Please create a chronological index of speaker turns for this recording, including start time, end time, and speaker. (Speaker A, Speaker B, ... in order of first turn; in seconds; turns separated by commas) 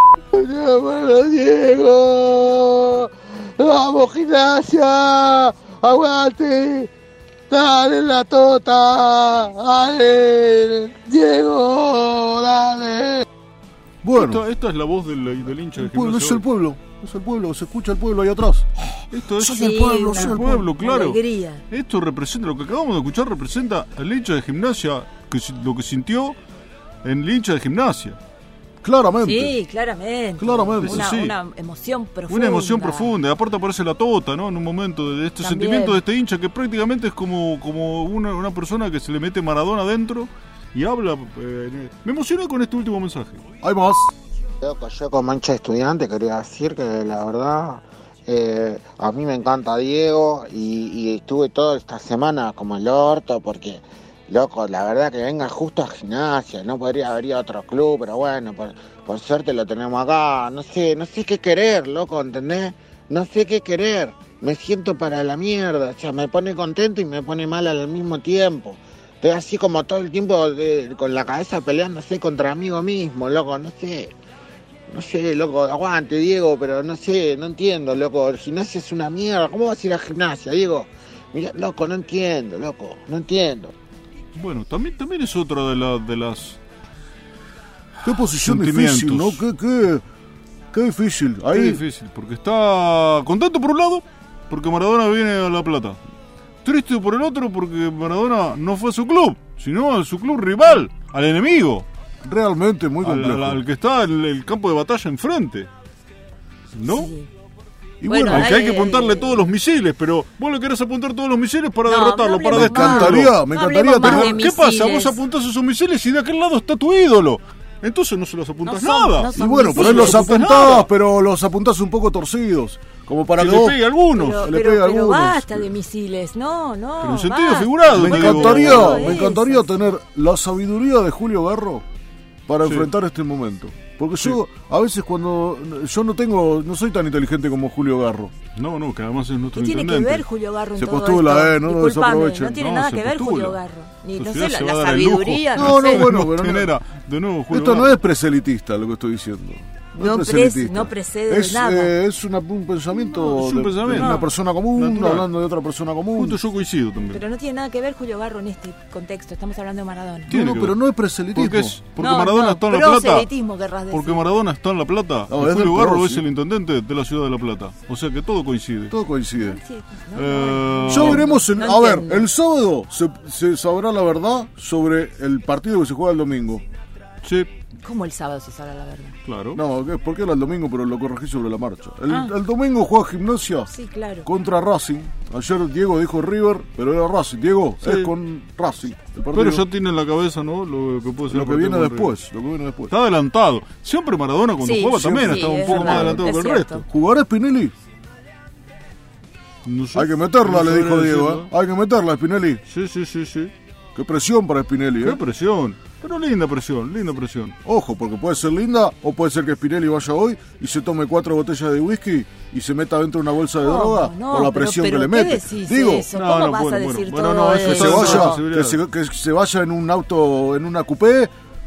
Speaker A: 0.3-6.9, Speaker A: 7.5-13.2, Speaker B: 14.0-14.4, Speaker C: 14.1-16.4, Speaker B: 15.8-20.7, Speaker C: 19.1-26.4, Speaker D: 19.4-21.6, Speaker C: 27.0-28.2, Speaker B: 28.8-29.6, Speaker D: 29.2-33.1, Speaker B: 30.4-31.2, Speaker C: 30.8-31.4, Speaker C: 32.3-43.4, Speaker D: 35.4-36.0, Speaker B: 43.6-44.1, Speaker E: 44.6-74.1, Speaker E: 74.9-83.7, Speaker C: 84.3-86.6, Speaker C: 88.0-89.4, Speaker B: 88.0-90.0, Speaker B: 90.7-91.8, Speaker C: 91.5-96.0, Speaker C: 96.6-101.8, Speaker B: 102.2-103.6, Speaker C: 103.0-105.7, Speaker C: 106.7-107.1, Speaker D: 106.8-107.3, Speaker B: 108.0-108.5, Speaker D: 108.0-109.4, Speaker C: 108.3-113.4, Speaker D: 111.8-115.2, Speaker B: 112.5-114.4, Speaker C: 114.0-120.9, Speaker D: 118.6-120.8, Speaker B: 119.3-123.8, Speaker C: 123.4-124.4, Speaker D: 124.1-129.7, Speaker B: 124.3-125.7, Speaker C: 127.0-129.2, Speaker B: 127.9-131.8, Speaker B: 132.5-138.3, Speaker C: 132.6-132.9, Speaker C: 138.5-140.2, Speaker D: 139.6-146.1, Speaker B: 140.8-142.6, Speaker C: 142.4-143.6, Speaker C: 144.2-148.0, Speaker B: 145.6-146.7, Speaker B: 147.5-156.4, Speaker D: 149.9-151.9, Speaker C: 153.0-155.3, Speaker D: 153.9-154.3, Speaker C: 156.2-157.2, Speaker D: 157.1-160.3, Speaker B: 160.3-161.8, Speaker C: 160.3-160.8, Speaker C: 161.3-163.3, Speaker D: 162.0-164.3, Speaker C: 163.9-168.9, Speaker B: 165.3-166.2, Speaker B: 168.9-169.6, Speaker D: 169.3-172.3, Speaker C: 170.1-171.3, Speaker B: 170.9-176.6, Speaker C: 177.2-177.5, Speaker D: 177.8-179.2, Speaker C: 179.2-179.6, Speaker B: 179.5-183.7, Speaker D: 182.1-182.3, Speaker D: 183.7-184.3, Speaker B: 184.2-189.6, Speaker C: 187.8-188.1, Speaker C: 189.3-192.1, Speaker B: 191.3-192.9, Speaker C: 192.9-196.8, Speaker D: 194.6-196.8, Speaker B: 194.9-196.3, Speaker B: 196.8-197.7, Speaker C: 199.6-201.5, Speaker B: 199.9-202.6, Speaker C: 202.7-203.5, Speaker B: 203.9-205.2, Speaker C: 205.0-207.5, Speaker B: 207.6-216.1, Speaker D: 213.6-218.4, Speaker C: 216.1-218.8, Speaker B: 217.4-221.3